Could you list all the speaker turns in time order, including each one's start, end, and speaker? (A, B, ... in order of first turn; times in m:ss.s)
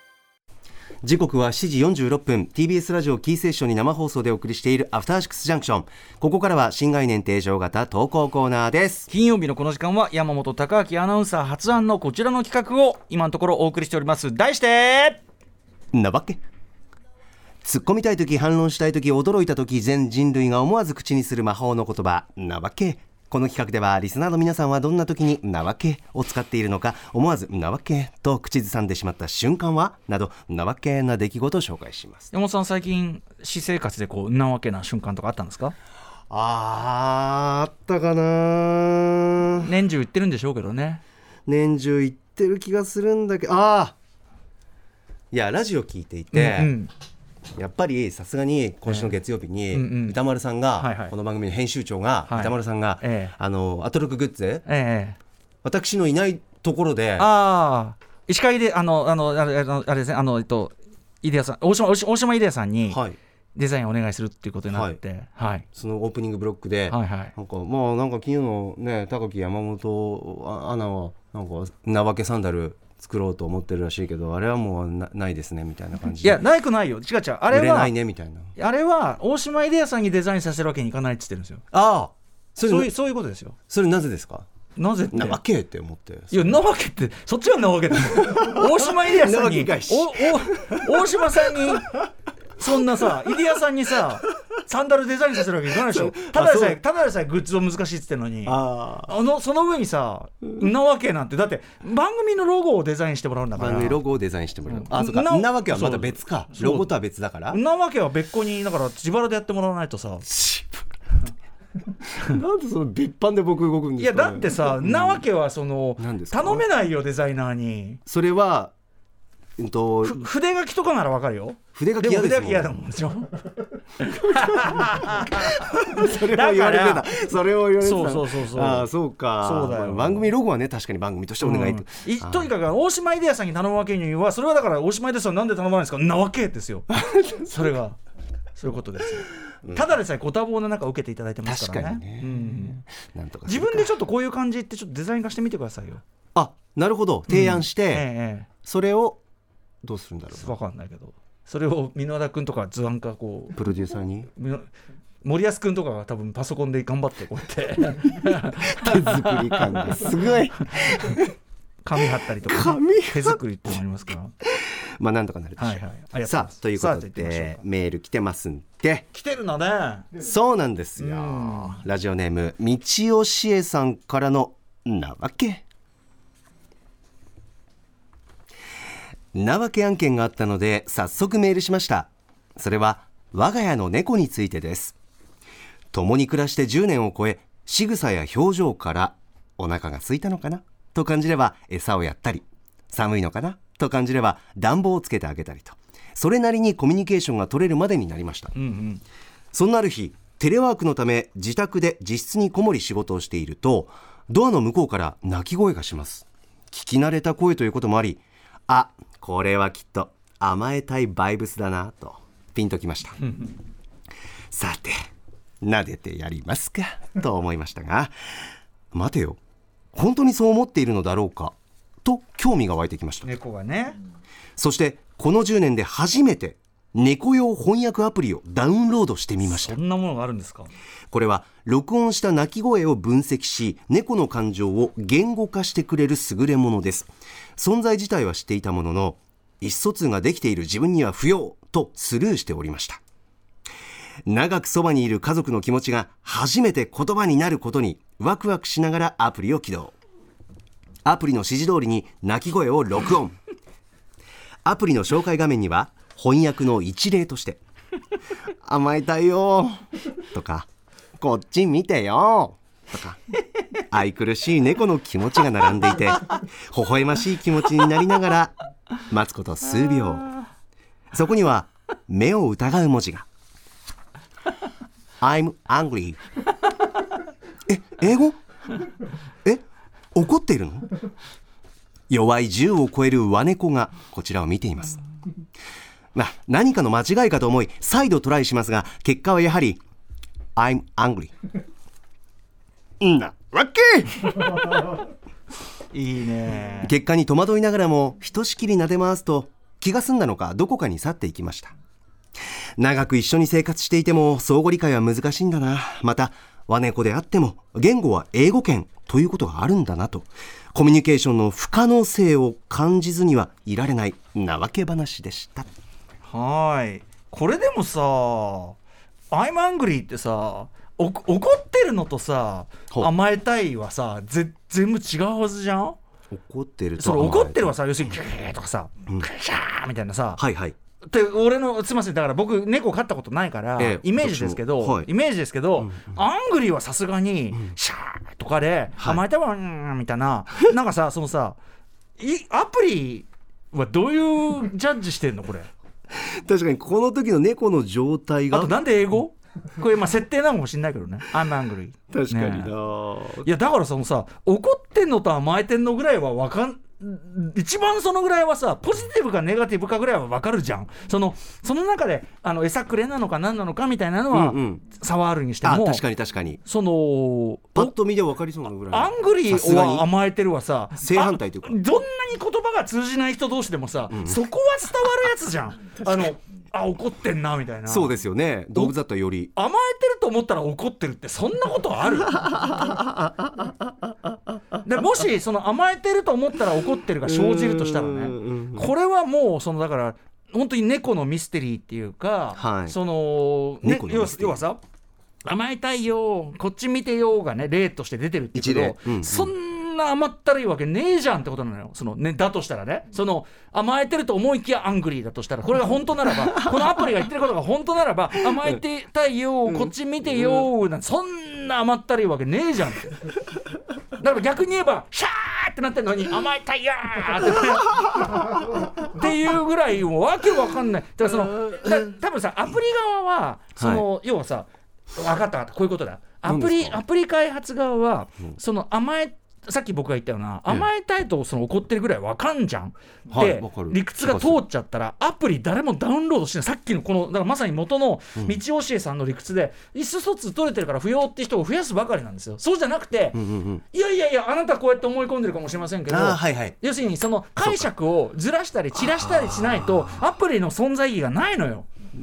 0:01.0-0:09.1 A
0:09.1-0:15.2 B
0:15.9-0:16.4 A
0:17.6-0:32.3 A
0:32.3-0:35.7 B
0:36.3-0:39.7 A
0:39.6-0:41.0 B
0:41.5-0:44.0 A
0:45.3-0:46.7 A
0:46.3-0:46.9 B
0:47.6-0:54.6 A
0:48.8-0:49.1 B
0:49.7-0:50.2 B
0:50.8-0:51.1 B
0:52.3-0:53.3 B
0:54.6-0:55.2 B
0:55.6-0:57.3 A
0:57.2-1:03.0 B
1:02.9-1:03.2 A
1:03.5-1:05.7 B
1:04.7-1:05.0 A
1:05.7-1:16.4 A
1:06.9-1:07.3 B
1:16.2-1:17.9 B
1:17.5-1:18.5 A
1:18.6-1:21.6 B
1:21.7-1:22.9 A
1:22.6-1:23.6 B
1:23.7-1:24.5 A
1:24.8-1:25.4 B
1:25.1-1:26.6 A
1:26.3-1:31.9 B
1:28.2-1:31.8 A
1:32.6-1:44.0 B
1:35.9-1:36.8 A
1:38.4-1:39.1 A
1:43.6-1:47.6 A
1:44.7-1:46.9 B
1:47.5-1:50.3 B
1:50.3-1:50.9 A
1:52.2-1:55.2 A
1:54.0-1:58.0 B
1:56.0-1:56.7 A
1:58.1-1:58.8 A
1:59.6-2:00.3 A
2:00.0-2:03.3 B
2:01.8-2:02.7 A
2:04.0-2:07.1 B
2:04.0-2:12.5 A
2:07.8-2:08.9 B
2:09.4-2:10.3 B
2:11.4-2:18.0 B
2:18.6-2:22.8 B
2:21.4-2:24.0 A
2:23.5-2:26.0 B
2:26.3-2:28.1 A
2:27.3-2:28.5 B
2:28.6-2:29.2 A
2:29.8-2:30.6 A
2:30.3-2:33.6 B
2:33.6-2:34.3 A
2:34.4-2:34.7 B
2:35.2-2:40.2 B
2:38.5-2:41.3 A
2:41.8-2:44.3 B
2:42.4-2:43.4 A
2:44.4-2:49.1 A
2:45.6-2:47.6 B
2:49.1-2:50.1 B
2:50.1-2:55.6 A
2:51.0-2:51.8 B
2:59.3-3:04.9 A
3:05.9-3:18.5 A
3:18.6-3:19.0 B
3:19.5-3:33.2 A
3:33.2-3:33.5 B
3:34.5-3:35.0 A
3:35.6-3:38.1 A
3:38.9-3:39.4 A
3:39.9-3:43.3 A
3:43.2-3:44.0 B
3:44.6-3:49.8 A
3:49.4-3:50.7 B
3:51.1-4:03.0 A
4:04.2-4:09.9 A
4:11.0-4:13.4 A
4:14.6-4:17.6 A
4:18.6-4:19.8 A
4:20.3-4:20.7 A
4:21.2-4:23.2 A
4:23.9-4:28.5 A
4:29.1-4:30.4 A
4:31.1-4:33.2 A
4:35.2-4:36.2 A
4:37.7-4:38.4 A
4:40.1-4:40.9 A
4:42.1-4:45.0 A
4:46.1-4:49.8 A
4:50.6-4:51.3 A
4:53.0-4:54.9 A
4:55.9-4:56.9 B
4:56.7-5:01.8 A
5:02.8-5:15.7 A
5:16.2-5:18.8 B
5:19.3-5:26.0 B
5:26.3-5:27.8 A
5:27.0-5:30.4 B
5:30.4-5:30.8 A
5:31.0-5:41.6 B
5:33.8-5:35.1 A
5:35.8-5:36.2 A
5:42.2-5:45.7 B
5:46.1-5:48.8 A
5:48.5-5:52.7 B
5:52.1-5:53.5 A
5:53.4-6:06.0 B
6:04.3-6:04.8 A
6:05.6-6:06.6 A
6:06.6-6:07.9 B
6:07.7-6:10.1 A
6:08.9-6:18.1 B
6:11.0-6:11.8 A
6:14.1-6:14.4 A
6:16.0-6:16.3 A
6:17.9-6:19.5 A
6:19.6-6:22.7 B
6:22.2-6:24.5 A
6:24.8-6:34.8 B
6:27.2-6:28.9 A
6:32.6-6:33.0 A
6:33.8-6:34.6 A
6:35.4-6:53.2 B
6:38.5-6:39.5 A
6:46.3-6:47.1 A
6:49.7-6:50.7 A
6:54.2-6:58.4 B
6:59.0-7:23.4 B
7:03.8-7:04.0 A
7:06.4-7:07.0 A
7:13.3-7:14.6 A
7:23.3-7:23.8 A
7:23.9-7:31.9 B
7:26.1-7:26.8 A
7:27.6-7:27.9 A
7:28.9-7:30.2 A